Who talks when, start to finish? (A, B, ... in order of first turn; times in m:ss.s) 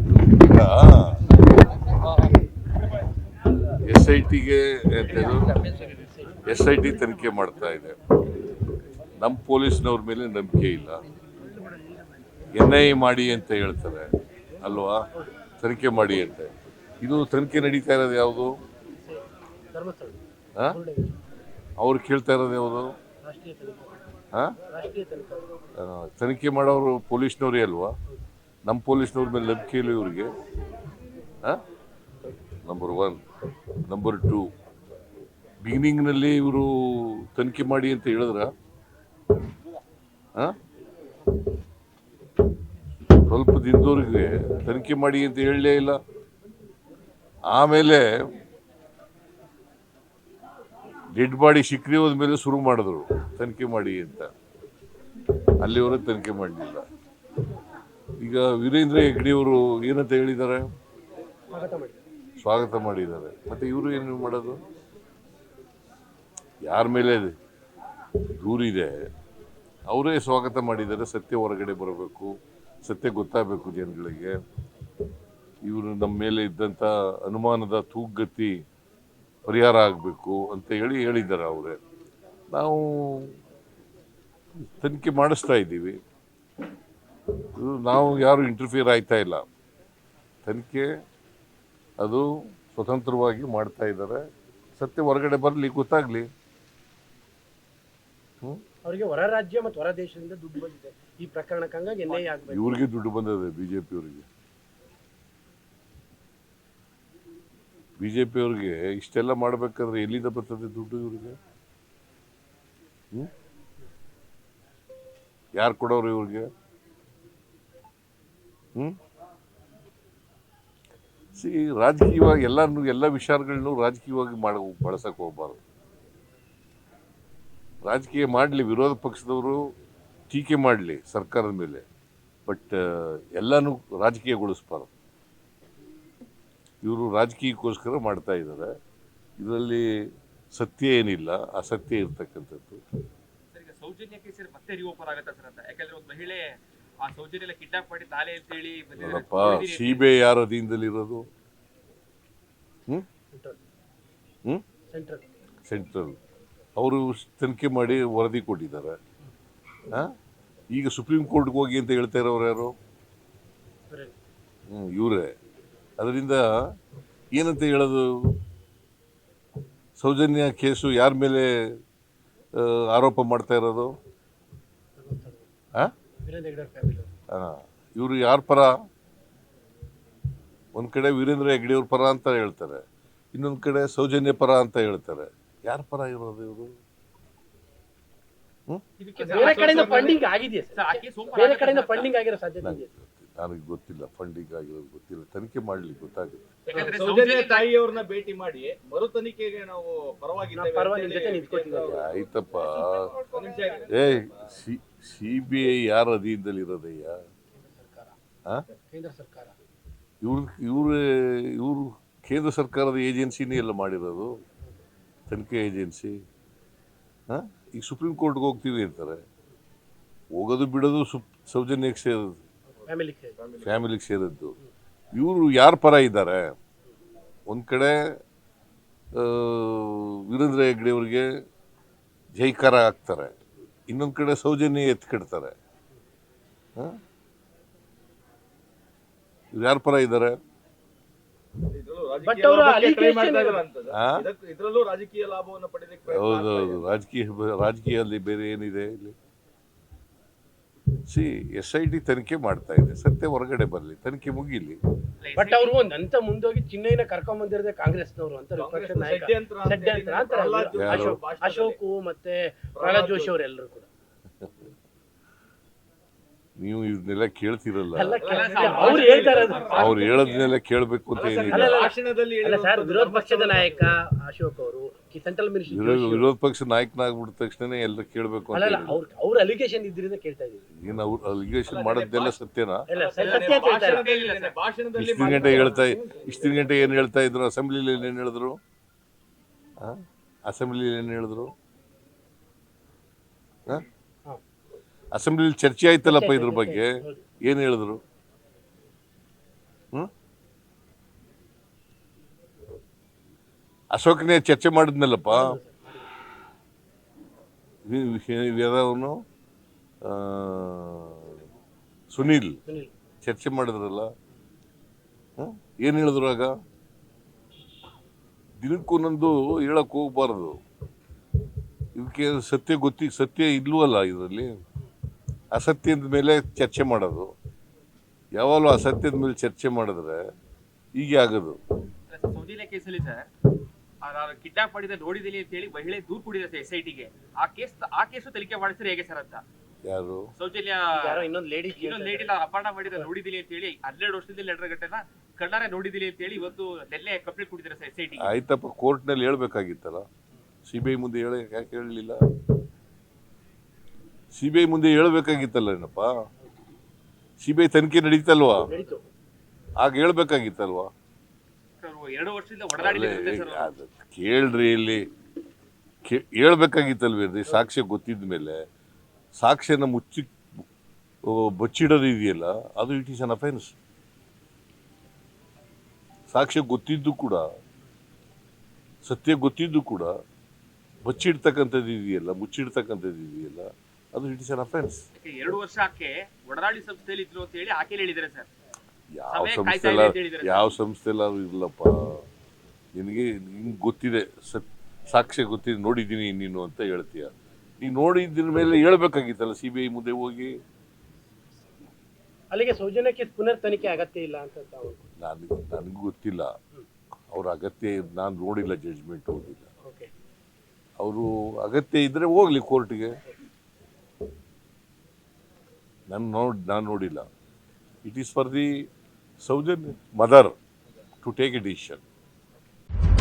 0:00.4-0:01.2 A
0:03.8-0:05.6 A
0:05.0-0:06.4 B
0:06.4-0:08.0 A
0:09.2-0:11.0 A
0:11.3-0:12.0 B
0:12.5-0:14.1 A
0:14.6-0:15.0 A
0:15.6-0:18.6 A
0:19.0-0:21.2 B
0:21.8-0:22.9 A
0:23.2-0:24.0 B
0:24.7-0:25.5 B
0:25.8-0:27.9 A
0:28.6-0:30.3 A
0:32.6-0:33.2 A
0:33.8-0:34.5 A
0:35.6-0:38.5 A
0:43.2-0:46.0 A
0:47.5-0:48.1 A
0:51.1-0:54.3 A
0:55.6-0:56.8 A
0:58.2-1:00.7 A
1:01.5-1:02.0 B
1:02.4-1:04.6 A
1:06.6-1:07.3 A
1:08.4-1:09.1 A
1:09.9-1:14.4 A
1:15.6-1:18.6 A
1:19.4-1:21.8 A
1:22.5-1:23.3 A
1:24.7-1:26.0 A
1:27.5-1:29.4 A
1:30.4-1:30.9 A
1:32.0-1:34.2 A
1:34.7-1:36.3 A
1:38.8-1:42.8 B
1:42.5-1:44.2 A
1:48.0-1:51.4 A
1:55.6-1:56.4 A
2:01.4-2:05.6 A
2:07.8-2:09.7 A
2:10.3-2:11.8 A
2:12.5-2:14.9 A
2:16.8-2:18.7 A
2:19.4-2:20.0 A
2:20.5-2:22.8 A
2:23.5-2:30.1 C
2:29.0-2:31.2 A
2:33.3-2:33.6 B
2:34.9-2:35.2 B
2:35.7-2:36.2 A
2:36.8-2:39.0 A
2:40.7-2:42.7 A
2:43.9-2:44.1 B
2:44.7-2:45.3 A
2:46.0-2:46.4 A
2:47.3-2:48.1 A
2:50.0-2:51.5 A
2:52.6-2:53.9 A
2:55.0-2:55.5 B
2:56.2-2:57.1 B
2:57.3-2:58.7 A
3:00.7-3:02.8 A
3:03.3-3:06.7 A
3:09.0-3:12.9 B
3:09.2-3:10.2 D
3:09.2-3:09.9 C
3:10.7-3:12.1 C
3:12.6-3:16.6 A
3:16.7-3:22.3 D
3:16.7-3:17.7 C
3:20.5-3:22.0 B
3:21.9-3:23.1 A
3:23.1-3:24.0 D
3:23.9-3:27.2 A
3:27.5-3:28.2 B
3:28.9-3:29.5 B
3:30.2-3:34.3 A
3:35.3-3:36.2 A
3:37.3-3:39.2 A
3:40.3-3:42.4 A
3:42.7-3:43.4 B
3:43.4-3:43.8 D
3:43.6-3:44.6 A
3:45.1-3:46.5 A
3:47.5-3:48.0 A
3:49.1-3:51.3 A
3:52.4-3:53.3 A
3:53.9-3:55.5 A
3:59.5-4:00.4 A
4:01.7-4:06.9 D
4:02.2-4:03.6 B
4:03.9-4:04.2 A
4:06.1-4:09.1 A
4:11.1-4:14.8 A
4:15.2-4:15.7 C
4:15.4-4:23.8 B
4:18.6-4:21.8 D
4:20.7-4:21.2 A
4:22.7-4:23.3 D
4:26.6-4:28.2 A
4:27.9-4:30.1 B
4:28.2-4:30.5 D
4:28.3-4:30.0 C
4:29.7-4:31.8 A
4:31.1-4:33.9 D
4:31.5-4:36.3 B
4:35.7-4:39.0 A
4:38.5-4:40.7 B
4:40.8-4:42.9 A
4:41.6-4:42.4 D
4:42.9-4:44.1 B
4:42.9-4:47.0 D
4:43.2-4:44.5 C
4:45.0-4:48.6 A
4:45.2-4:45.8 B
4:49.8-4:51.5 A
4:55.1-4:58.0 A
4:56.0-4:57.2 B
5:03.9-5:05.6 A
5:05.3-5:06.0 B
5:07.8-5:09.2 A
5:10.0-5:11.4 A
5:12.1-5:12.6 A
5:13.2-5:14.1 A
5:15.4-5:16.5 A
5:18.6-5:20.6 A
5:21.9-5:24.5 A
5:25.5-5:27.3 A
5:28.4-5:30.2 A
5:31.0-5:31.6 A
5:32.1-5:33.3 C
5:34.0-5:39.4 C
5:39.8-5:40.3 A
5:40.4-5:48.3 C
5:40.9-5:42.3 B
5:48.2-5:50.0 A
5:50.6-5:52.2 A
5:54.3-5:56.1 A
5:57.4-5:58.7 A
5:58.6-5:59.0 B
5:59.8-6:00.9 A
6:01.8-6:03.7 C
6:02.8-6:05.0 A
6:06.0-6:08.6 A
6:09.4-6:10.3 A
6:11.2-6:13.7 A
6:16.3-6:17.4 A
6:19.0-6:20.1 A
6:21.0-6:25.0 A
6:25.2-6:28.5 C
6:29.1-6:32.2 A
6:29.3-6:30.7 C
6:32.9-6:40.5 A
6:42.5-6:45.1 B
6:45.2-6:46.5 A
6:47.3-6:49.7 A
6:49.8-6:50.1 B
6:51.0-6:53.2 A
6:56.1-6:57.2 A
6:58.0-6:58.8 A
6:59.4-7:00.6 A
7:01.2-7:02.0 A